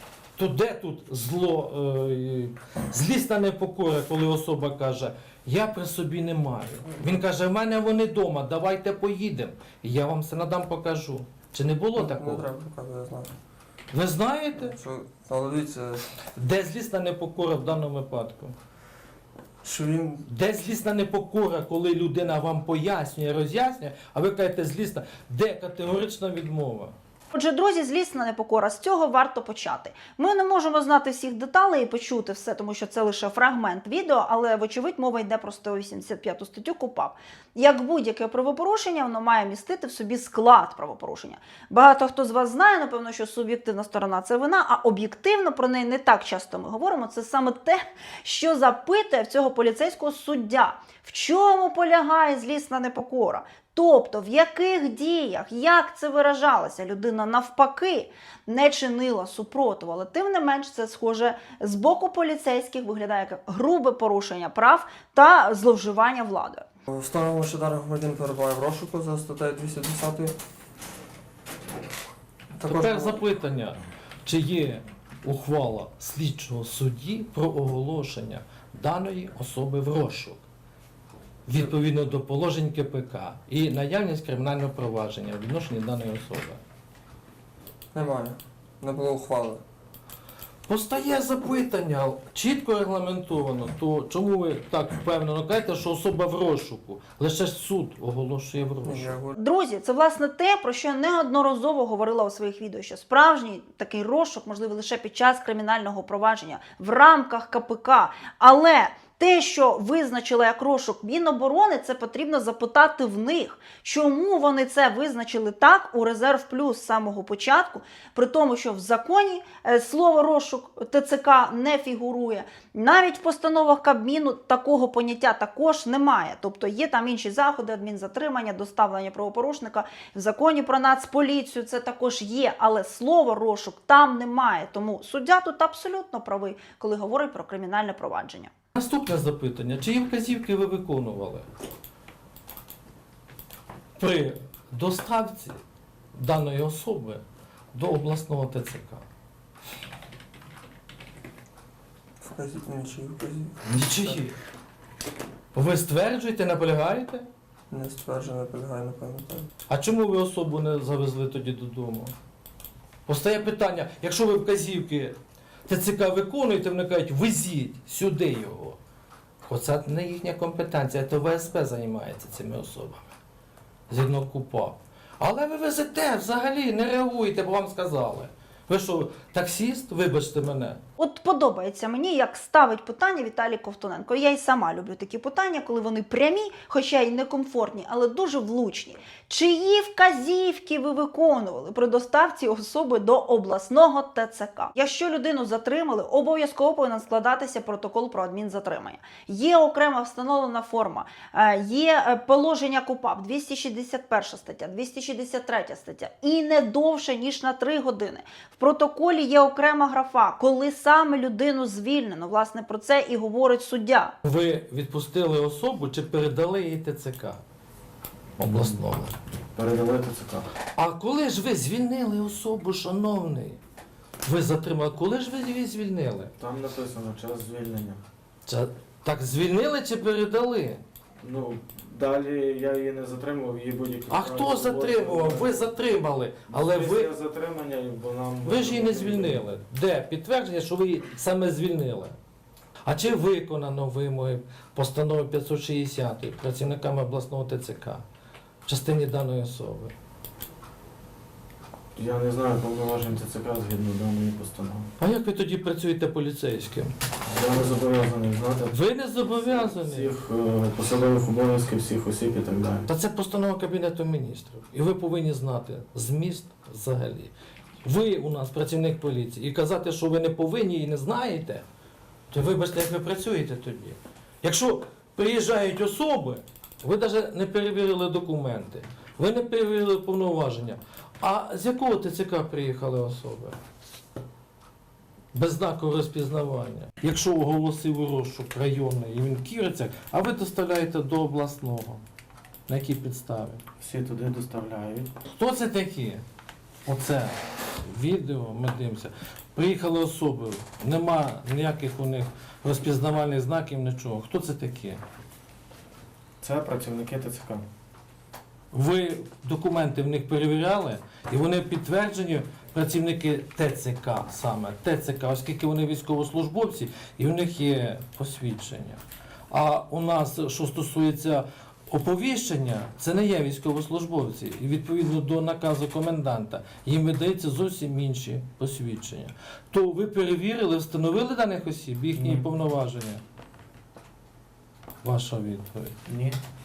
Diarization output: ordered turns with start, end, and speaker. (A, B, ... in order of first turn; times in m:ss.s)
0:00.4-0:12.5 A
0:12.0-0:13.3 B
0:13.9-0:14.8 A
0:14.6-0:16.2 B
0:16.4-0:18.6 A
0:19.6-0:20.3 B
0:20.3-0:26.9 A
0:27.3-1:06.6 C
1:06.9-1:10.4 B
1:12.6-1:13.2 B
1:12.7-1:20.4 A
1:21.5-1:26.6 A
1:27.9-1:29.6 B
1:30.7-1:39.2 A
1:38.8-1:39.4 B
1:39.4-2:18.5 C
2:18.8-2:21.5 A
2:24.0-2:25.6 A
2:26.2-2:27.2 A
2:27.7-2:29.0 A
2:32.2-2:34.2 B
2:33.6-2:34.4 A
2:35.5-2:37.3 A
2:37.7-2:39.5 B
2:39.7-2:42.1 A
2:43.1-2:45.2 A
2:45.7-2:48.8 A
2:49.4-2:53.2 A
2:53.9-3:00.8 A
3:01.0-3:34.1 C
3:34.2-3:37.4 A
3:38.4-3:39.2 A
3:39.6-3:40.5 D
3:40.8-3:43.6 A
3:44.2-3:46.3 A
3:46.4-3:48.0 D
3:48.5-3:50.8 A
3:51.2-3:55.7 D
3:54.1-3:57.1 A
3:56.5-3:59.4 D
3:58.4-4:02.2 A
4:02.8-4:08.0 A
4:08.7-4:09.9 A
4:12.0-4:14.9 D
4:15.0-4:17.0 A
4:17.3-4:18.8 D
4:18.7-4:20.2 A
4:19.3-4:22.9 D
4:22.9-4:27.3 A
4:27.8-4:31.6 A
4:32.3-4:43.6 A
4:45.3-4:52.0 A
4:52.7-4:53.6 A
4:53.8-4:55.1 D
4:55.3-4:56.2 A
4:56.8-5:05.0 A
5:06.4-5:07.6 D
5:08.7-5:19.0 A
5:19.5-5:33.2 A
5:32.2-5:32.4 D
5:35.0-5:36.0 A
5:36.1-5:36.4 D